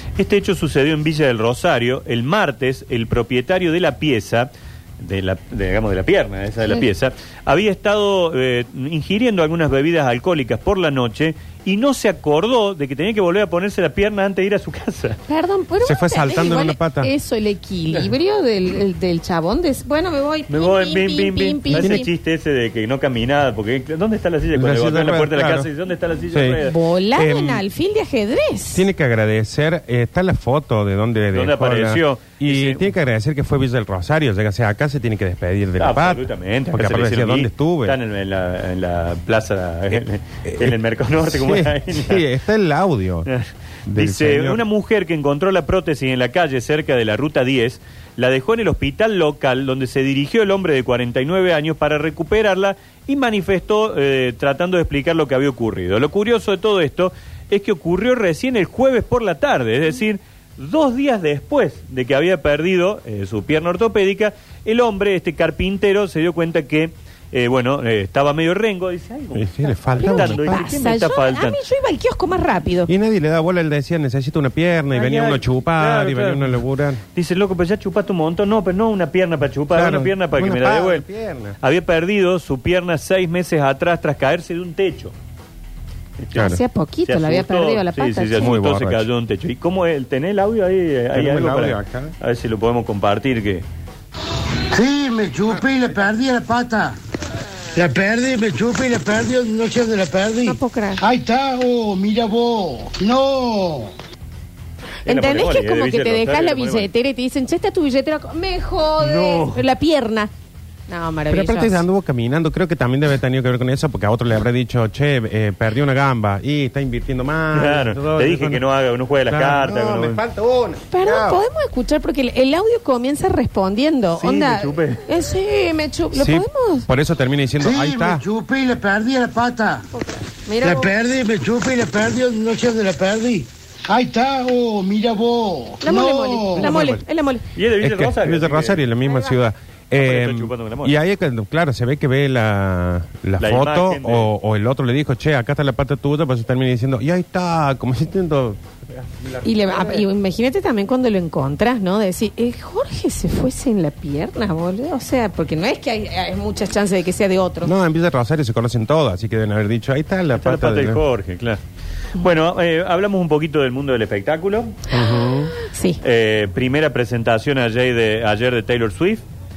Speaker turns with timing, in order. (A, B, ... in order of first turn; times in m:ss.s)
0:00.2-0:15.2 A
0:15.3-0:22.1 B
0:15.8-0:17.1 C
0:20.5-0:26.8 A
0:21.7-0:22.1 C
0:24.5-0:25.7 C
0:26.3-0:26.6 C
0:26.6-0:28.8 B
0:27.2-0:27.6 C
0:28.7-0:38.0 C
0:31.3-0:32.9 A
0:35.8-0:42.3 A
0:40.5-0:40.8 C
0:41.3-0:43.3 C
0:43.3-1:11.6 A
0:43.9-0:44.6 C
1:09.3-1:10.7 C
1:10.0-1:12.9 B
1:12.9-1:17.0 C
1:14.9-1:16.6 A
1:17.2-1:21.1 A
1:19.7-1:21.6 C
1:21.6-1:25.1 A
1:26.3-1:28.5 B
1:26.4-1:26.6 C
1:27.1-1:33.6 A
1:28.4-1:29.1 C
1:31.1-1:32.1 C
1:34.7-1:37.0 D
1:37.8-1:43.9 D
1:40.4-1:41.0 B
1:45.0-1:50.3 B
1:45.1-1:46.9 A
1:49.0-1:49.6 A
1:50.9-1:51.8 B
1:51.3-1:58.6 C
1:57.5-2:00.2 A
1:59.3-2:01.4 C
2:00.9-2:06.9 B
2:04.2-2:05.0 A
2:06.1-2:08.2 C
2:07.6-2:09.9 D
2:09.9-2:10.9 B
2:10.6-2:16.7 D
2:15.8-2:17.4 B
2:16.6-2:17.0 C
2:17.6-2:18.8 A
2:17.8-2:30.1 C
2:19.0-2:19.4 B
2:20.0-2:21.0 A
2:23.4-2:24.3 A
2:29.4-2:37.7 B
2:37.6-2:41.0 C
2:40.4-2:41.6 A
2:42.2-2:44.9 A
2:44.9-2:45.5 C
2:45.0-2:46.0 B
2:46.0-2:49.2 A